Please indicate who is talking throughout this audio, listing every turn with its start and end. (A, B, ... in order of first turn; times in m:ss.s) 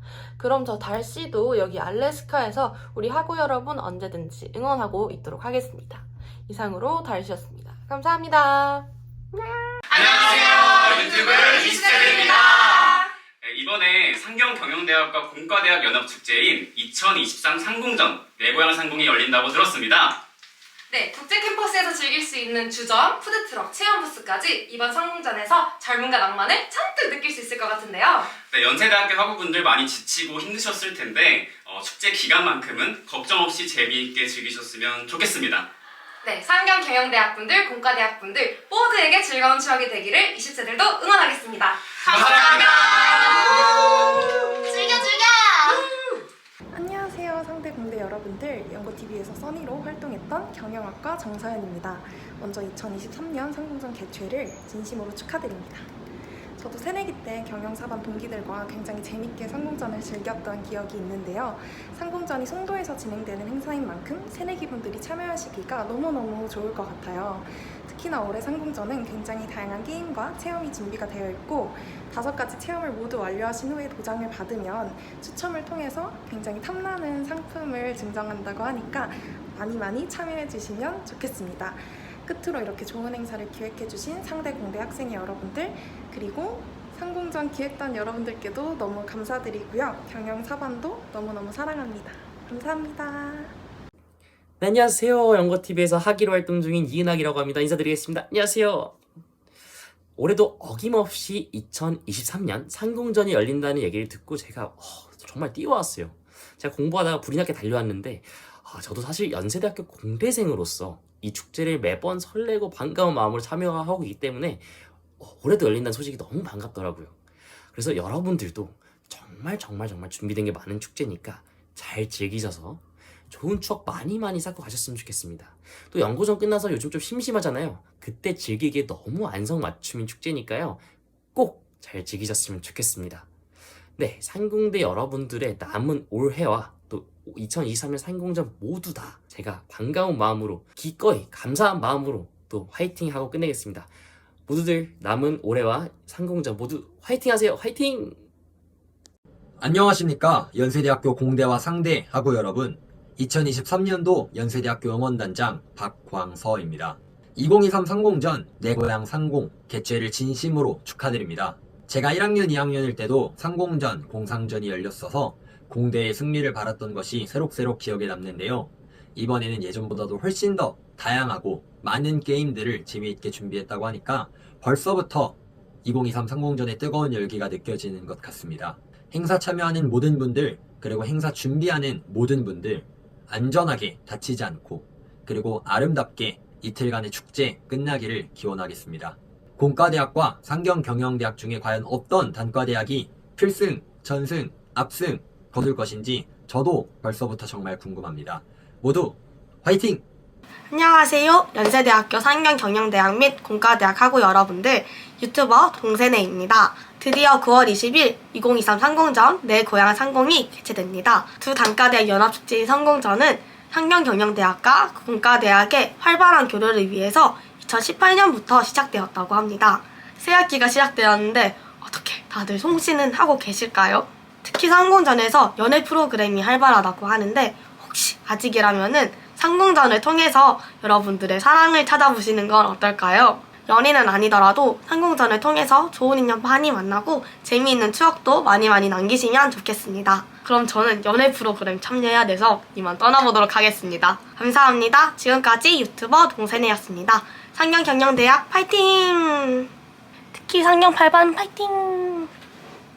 0:00.4-0:08.9 A
0:09.9-0:13.1 B
0:09.9-0:20.2 C
0:20.9-0:28.3 B
0:28.5-0:35.6 C
0:36.2-0:45.9 B
0:42.1-0:44.0 C
0:46.7-0:55.9 D
0:56.6-1:33.6 D
1:34.6-1:39.0 E
1:40.2-1:57.2 E
1:57.7-2:10.8 E
2:11.4-2:13.3 E
2:14.0-2:23.9 E
2:24.5-2:28.2 E
2:29.6-3:20.0 F
3:20.7-4:09.7 G
4:10.3-4:12.3 G